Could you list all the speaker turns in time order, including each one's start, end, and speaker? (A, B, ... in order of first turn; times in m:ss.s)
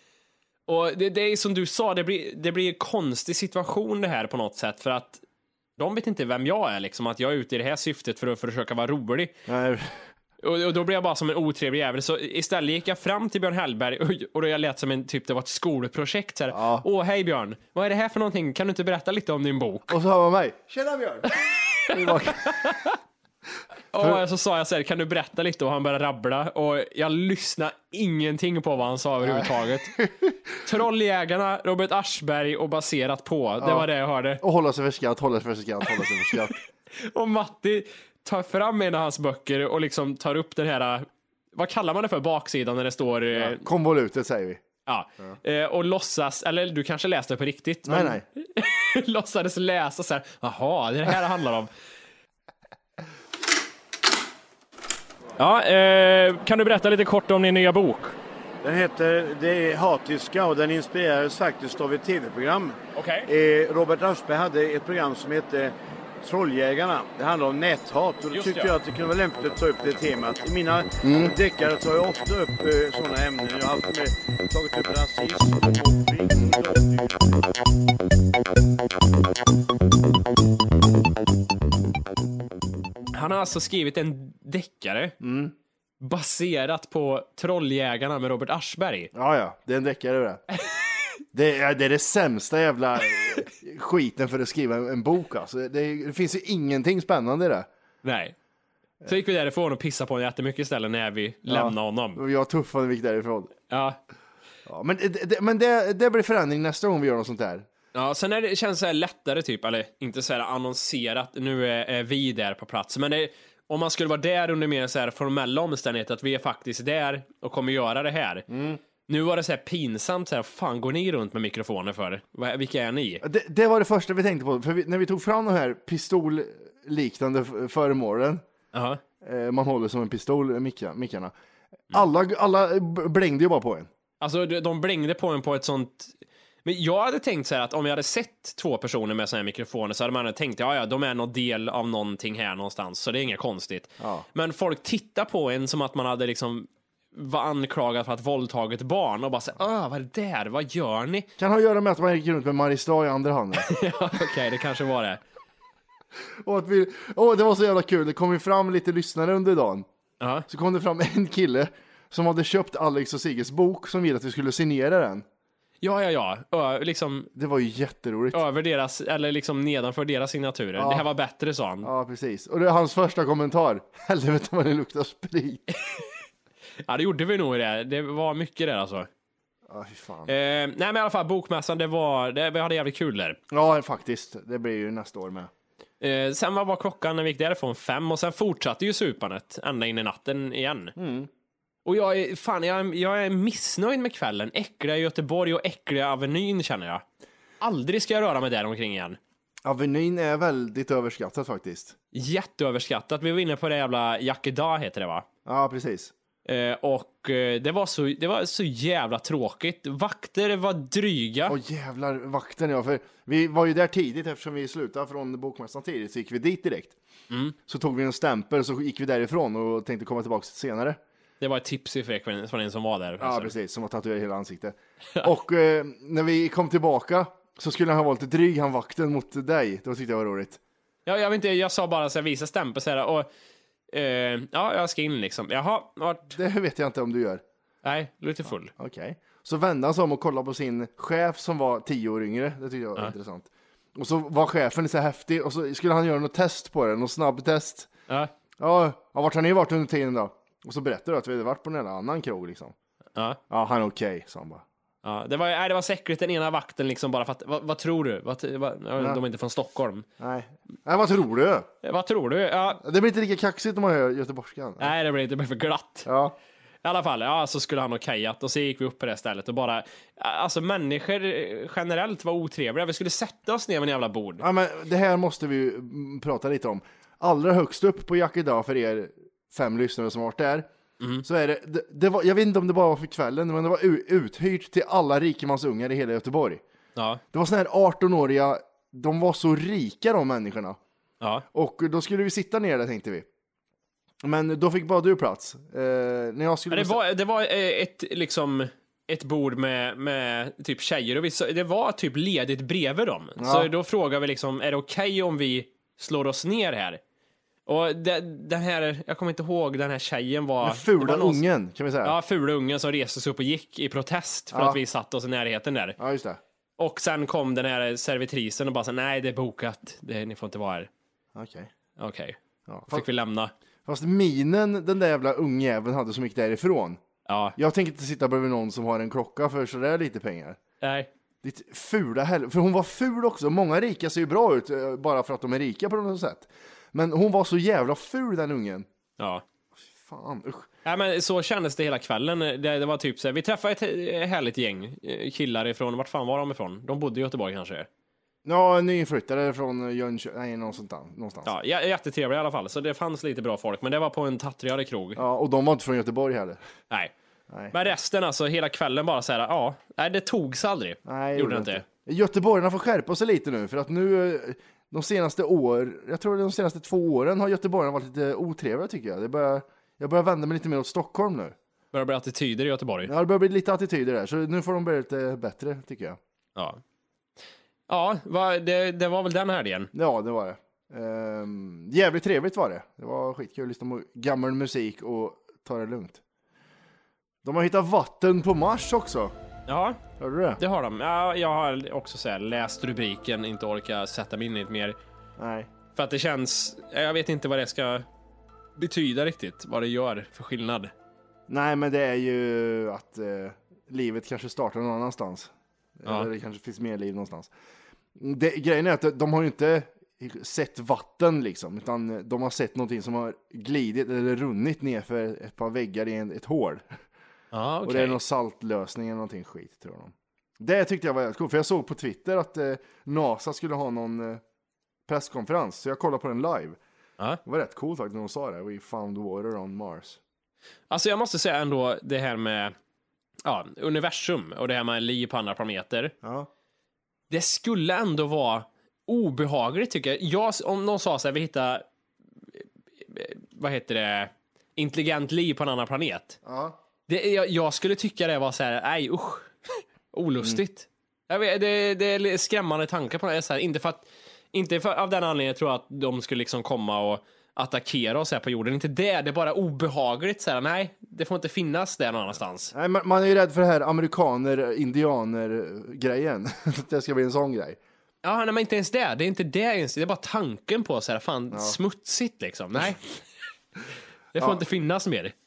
0:00.7-0:05.2 A
0:05.8-0:09.3 A
0:09.5-0:10.0 B
0:10.4-0:20.0 A
0:16.5-0:16.8 B
0:19.9-0:21.3 B
0:21.7-0:23.0 A
0:21.9-0:22.6 B
0:23.9-0:30.0 A
0:29.2-0:30.4 B
0:30.6-0:34.4 A
0:33.6-0:33.9 B
0:34.4-0:36.6 B
0:37.0-0:43.6 A
0:43.3-0:44.6 B
0:44.8-0:51.7 A
0:47.8-0:48.2 B
0:55.4-0:58.1 A
0:58.6-1:17.5 C
1:02.9-1:03.3 A
1:08.3-1:08.7 A
1:11.0-1:11.3 B
1:23.1-1:25.1 A
1:25.2-1:25.5 B
1:26.0-1:29.1 A
1:29.1-1:30.4 B
1:31.3-1:37.7 B
1:38.0-1:38.3 A
1:39.0-1:42.2 A
1:41.4-1:43.5 B
1:43.7-1:44.0 A
1:44.6-1:47.6 B
1:47.9-1:58.4 A
1:58.5-1:58.8 B
1:59.1-2:03.2 A
2:03.2-2:08.4 B
2:08.7-2:09.0 A
2:09.2-2:11.3 B
2:11.9-2:13.9 B
2:14.2-2:31.3 A
2:24.0-2:24.2 B
2:31.4-2:33.7 B
2:33.6-2:35.2 A
2:36.3-2:39.9 B
2:40.2-2:40.4 A
2:40.5-2:45.2 B
2:45.8-2:47.3 A
2:47.3-2:48.4 B
2:48.3-2:51.9 A
2:50.8-2:51.1 B
2:51.8-2:55.6 B
2:56.8-2:59.1 A
2:59.7-3:00.3 B
3:00.3-3:03.4 A
3:03.5-3:05.5 B
3:06.0-3:10.9 A
3:11.0-3:11.3 B
3:11.8-3:17.0 A
3:17.6-3:19.2 A
3:19.6-3:21.9 B
3:22.1-3:25.2 A
3:25.4-3:26.1 B
3:26.4-3:31.6 A
3:31.5-3:37.0 B
3:37.7-3:41.0 B
3:41.4-3:43.5 A
3:43.2-3:50.6 B
3:51.0-3:53.3 A
3:53.9-3:56.3 A
3:56.3-3:57.4 B
3:57.8-3:58.7 A
3:58.8-4:07.9 B
4:08.6-4:12.7 B
4:13.5-4:14.6 B
4:15.0-4:20.0 A
4:20.2-4:21.7 B
4:21.8-4:22.8 A
4:22.8-4:24.9 B
4:24.8-4:26.1 A
4:26.0-4:26.3 B
4:26.8-4:34.4 A
4:34.4-4:40.7 B
4:41.2-4:46.6 B
4:47.0-4:47.2 A
4:47.3-4:50.8 B
4:51.5-4:53.3 B
4:54.2-4:57.0 B
4:56.7-5:07.0 A
5:03.4-5:03.7 B
5:07.6-5:11.4 A
5:10.6-5:12.2 B
5:12.0-5:16.0 A
5:14.5-5:14.8 B
5:16.0-5:16.4 B
5:16.8-5:20.9 A
5:21.3-5:21.7 B
5:22.0-5:23.5 A
5:22.7-5:23.1 B
5:23.8-5:27.0 B
5:27.3-5:27.6 A
5:27.6-5:30.6 B
5:30.8-5:31.1 A
5:31.4-5:38.9 B
5:39.9-5:40.7 B
5:40.8-5:47.9 A
5:48.4-5:51.5 B
5:51.4-5:55.2 A
5:55.2-5:56.6 B
5:57.7-6:01.8 A
6:01.0-6:11.6 B
6:11.9-6:13.1 A
6:13.0-6:16.2 B
6:17.9-6:19.9 A
6:19.9-6:26.2 B
6:27.4-6:29.3 B
6:29.7-6:30.0 A
6:30.2-6:30.6 B
6:30.6-6:35.0 A
6:35.4-6:35.7 B
6:36.0-6:38.0 A
6:38.8-6:40.9 A
6:41.5-6:47.5 B
6:48.2-6:57.0 B
6:57.5-6:58.2 A
6:57.8-7:04.4 B
7:05.1-7:06.8 B
7:07.4-7:10.2 B
7:10.9-7:12.7 A
7:13.4-7:16.1 A
7:16.2-7:16.5 B
7:17.3-7:21.8 A
7:22.6-7:26.4 A
7:26.4-7:26.8 B
7:27.1-7:42.7 A
7:42.7-7:47.8 B
7:48.2-7:53.0 A
7:51.5-7:51.8 B
7:54.3-7:55.3 A